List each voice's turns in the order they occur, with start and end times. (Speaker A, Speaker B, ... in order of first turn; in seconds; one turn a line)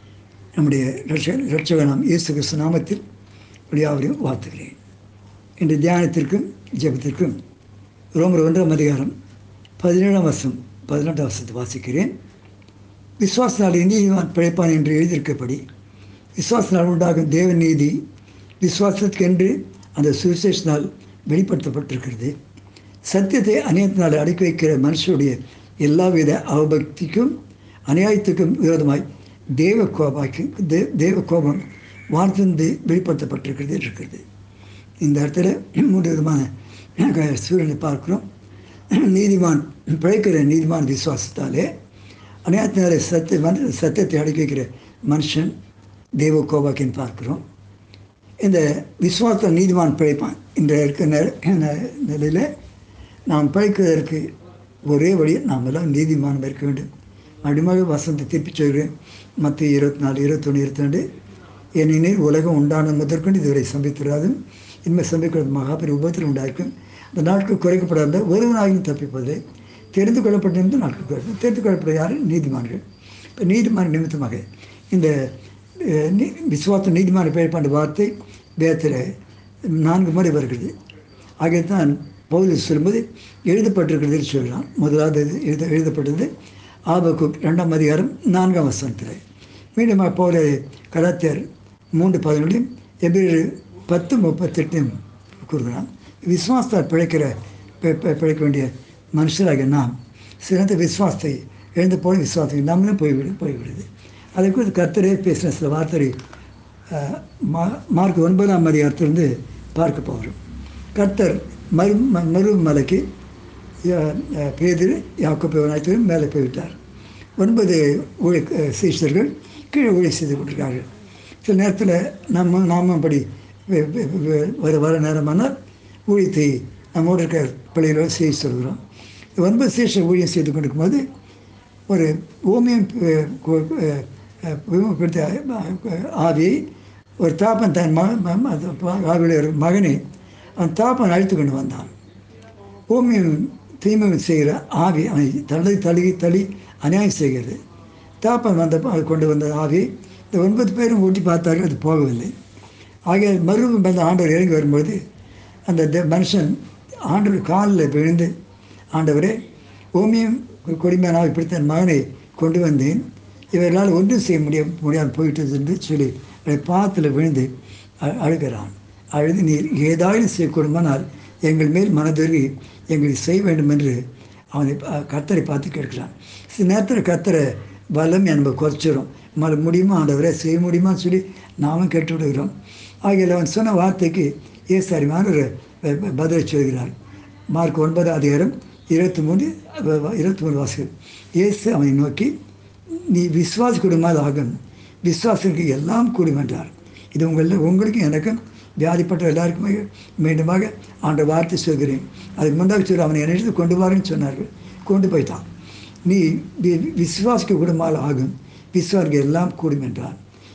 Speaker A: 0.5-3.0
Speaker A: 3.7-4.8
Speaker A: 5.6-7.4
Speaker A: 8.1-9.1
Speaker A: 9.8-12.1
Speaker A: 13.2-15.6
Speaker A: 16.4-18.0
Speaker A: 18.6-22.3
Speaker A: 23.0-27.3
Speaker A: 27.9-29.0
Speaker A: 29.6-34.2
Speaker A: 35.0-38.2
Speaker A: 38.9-41.7
Speaker A: 42.4-45.5
Speaker A: 46.2-47.4
Speaker A: 48.4-52.5
Speaker A: 53.3-54.3
Speaker A: 54.9-56.9
Speaker A: 57.4-61.0
Speaker A: 61.8-69.4
Speaker A: 69.9-72.8
Speaker A: 73.4-79.1
Speaker A: 79.7-80.7
Speaker A: 81.4-86.3
Speaker A: 86.9-89.2
Speaker A: 89.8-106.1
Speaker A: 106.9-110.4
Speaker A: 110.9-113.0
Speaker A: 113.8-116.8
Speaker A: 117.4-120.8
Speaker A: 121.4-125.5
Speaker A: 126.1-128.8
Speaker A: 129.4-131.0
Speaker A: 131.9-136.7
Speaker A: 137.2-140.0
Speaker A: 140.6-141.9
Speaker A: 142.9-147.6
Speaker A: 148.2-152.3
Speaker A: 153.1-155.0
Speaker A: 155.7-158.3
Speaker A: 158.9-159.4
Speaker A: 159.9-167.5
Speaker A: 168.0-174.0
Speaker A: 174.5-182.5
Speaker A: 183.0-186.9
Speaker A: 187.5-192.3
Speaker A: 193.1-205.4
Speaker A: 206.0-210.2